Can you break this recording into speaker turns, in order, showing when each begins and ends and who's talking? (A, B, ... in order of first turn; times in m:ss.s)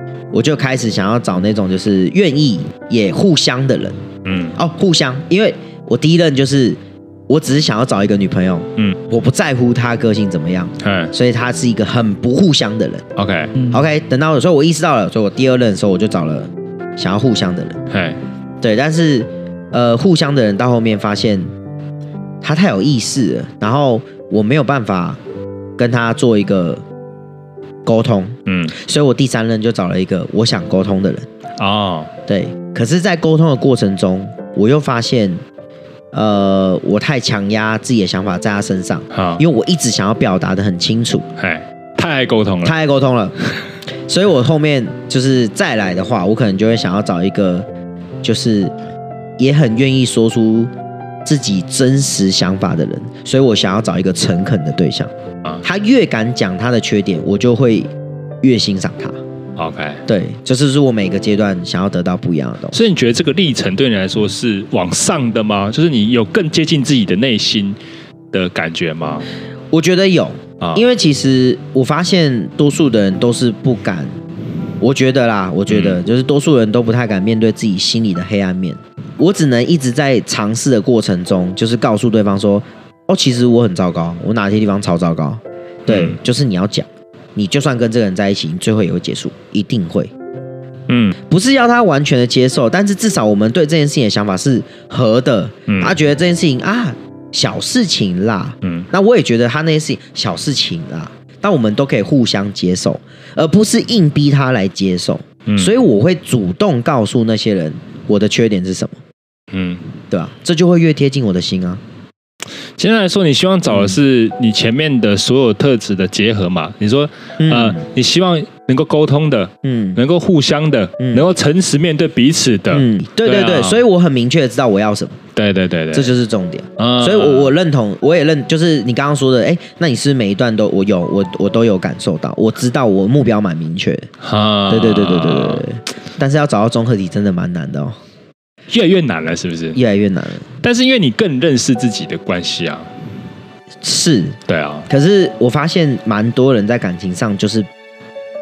0:00.3-0:04.0 A
0:04.2-0:04.6 B
0:04.6-0:13.0 A
0:10.8-0:11.1 B
0:13.2-0:13.5 B
0:13.7-0:17.8 A
0:17.9-0:18.2 B
0:18.6-0:21.5 A
0:22.4-0:25.2 A
0:25.8-0:26.8 A
0:27.8-0:31.3 A
0:28.5-0:28.7 B
0:31.6-0:32.1 B
0:32.3-0:35.4 A
0:36.1-0:41.3 A
0:39.1-0:39.4 B
0:41.4-0:42.7 B
0:42.6-0:43.3 A
0:44.1-0:47.6 A
0:48.2-0:48.7 A
0:49.4-0:50.7 A
0:51.2-0:55.1 A
0:55.6-0:57.9 A
0:58.4-0:59.2 A
0:59.6-1:00.0 B
1:00.1-1:02.8 A
1:02.7-1:07.8 B
1:08.3-1:09.2 B
1:09.7-1:14.1 A
1:14.8-1:30.1 A
1:15.7-1:16.0 B
1:25.9-1:26.2 B
1:30.9-1:31.2 B
1:31.3-1:49.0 A
1:35.7-1:36.0 B
1:38.6-1:38.9 B
1:45.5-1:45.7 B
1:49.5-1:49.9 B
1:50.1-1:51.8 A
1:52.8-2:03.8 B
1:53.7-1:54.0 A
1:57.4-1:57.8 A
1:59.6-2:00.0 A
2:01.0-2:01.2 A
2:02.7-2:05.2 A
2:05.4-2:06.1 B
2:05.9-2:14.1 A
2:06.8-2:07.5 B
2:14.2-2:15.6 B
2:14.7-2:18.0 A
2:18.7-2:19.8 B
2:19.7-2:20.4 A
2:20.6-2:22.9 B
2:23.8-2:27.7 A
2:24.5-2:24.9 B